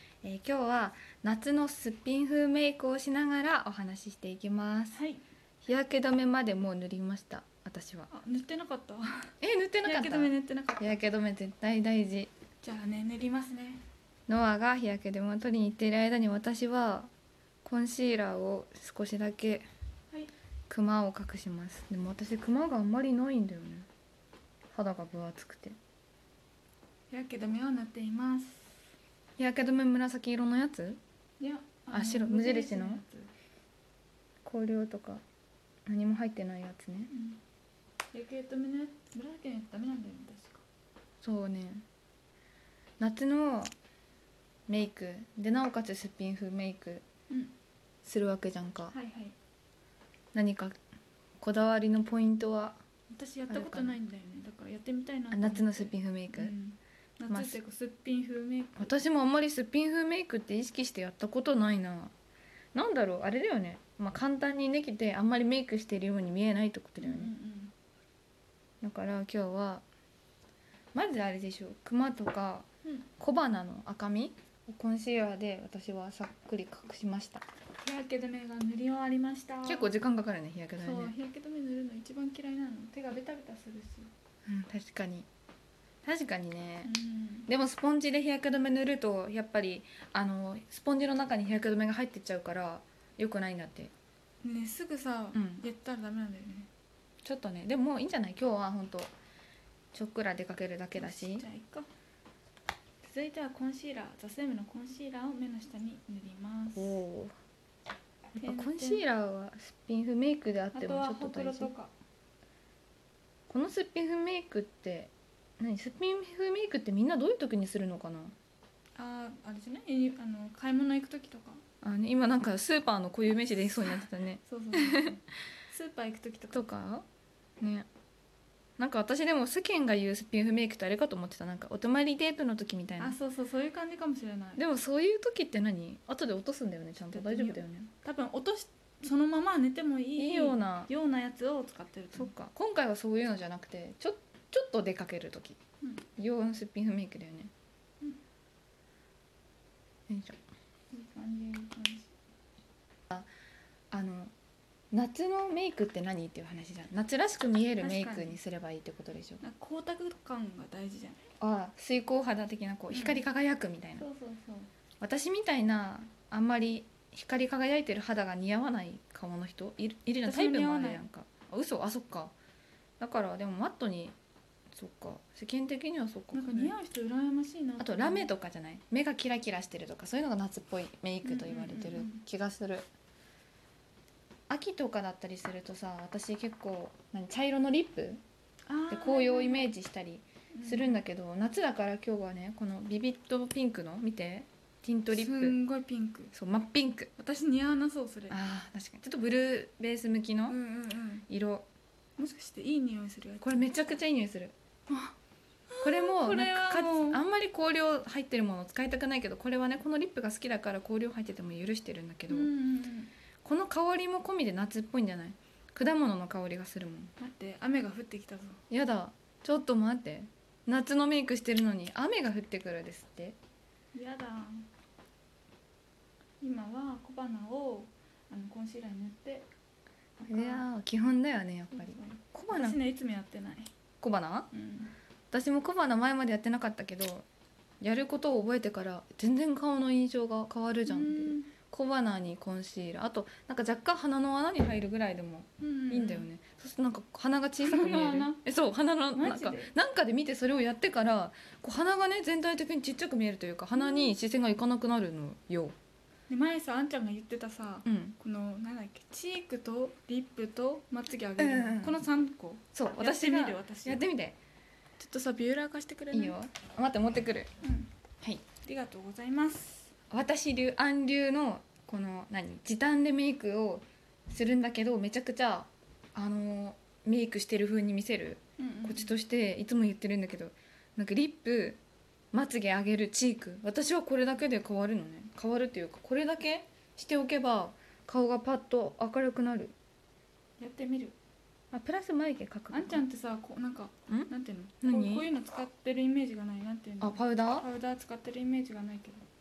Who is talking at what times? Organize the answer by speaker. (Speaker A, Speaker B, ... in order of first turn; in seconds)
Speaker A: 0.2-5.0, 5.6-8.1, 9.4-12.3, 14.3-17.1, 17.6-19.6, 20.7-23.9, 24.7-25.8, 29.4-31.0, 31.9-33.0, 34.4-35.2, 35.9-37.1, 41.2-41.8, 43.0-43.7, 44.7-47.0, 48.0-49.0, 50.3-50.7, 51.4-52.8, 53.5-54.0, 55.3-56.5, 57.3-57.6, 58.8-62.1, 62.7-67.3, 68.8-69.8, 70.9-72.7, 73.2-77.4, 79.6-81.1, 84.5-85.3, 86.0-86.9, 87.5-93.9, 95.3-95.6, 97.2-99.1, 99.9-101.5, 106.8-107.3, 108.3-111.7, 113.5-118.3, 121.8-125.2, 126.5-127.0, 127.6-127.9, 128.8-133.2, 134.6-137.9, 140.2-140.9, 142.1-145.6, 146.2-147.5, 150.1-150.4, 153.9-154.3, 154.9-159.4, 161.4-164.0, 165.0-172.3, 173.0-174.1, 174.7-176.7, 177.8-182.8, 184.5-188.2, 188.9-195.6, 196.3-197.1, 198.3-200.6, 201.3-201.7, 203.4-204.5, 205.8-212.5, 213.4-217.1, 218.7-223.4, 230.2-232.8, 234.0-234.5, 235.3-237.2, 237.8-255.8, 257.8-258.1, 261.4-262.0, 262.7-264.4, 266.1-267.5, 268.2-268.5, 270.1-281.8, 282.3-289.7, 291.7-293.1, 294.1-295.3, 297.0-297.6
Speaker B: 4.9-5.2, 8.1-9.3, 9.8-11.0, 12.6-13.8, 27.1-28.8, 31.4-33.3, 37.1-37.4, 38.1-40.6, 48.9-49.3, 53.1-58.9, 67.0-67.7, 77.8-79.9, 80.8-84.1, 86.8-87.5, 94.4-96.7, 101.0-101.9, 103.0-107.0, 108.4-109.0, 110.7-111.9, 119.0-121.6, 123.8-126.7, 133.0-134.6, 137.1-142.3, 150.9-152.1, 157.8-158.4, 159.4-161.3, 162.9-163.2, 164.0-164.7, 170.2-171.0, 176.3-178.3, 181.2-182.2, 188.7-189.7, 190.5-190.9, 195.1-196.3, 197.2-198.4, 200.5-201.2, 202.2-203.7, 204.9-205.1, 205.7-207.2, 212.3-213.1, 217.2-218.6, 223.9-224.7, 226.4-229.5, 230.2-230.7, 231.7-233.7, 234.5-234.9, 240.8-241.5, 245.6-246.3, 247.6-248.4, 249.1-249.7, 253.7-254.2, 256.3-264.1, 265.0-266.4, 267.6-267.9, 268.6-269.9, 278.6-279.1, 290.6-291.1, 292.7-299.2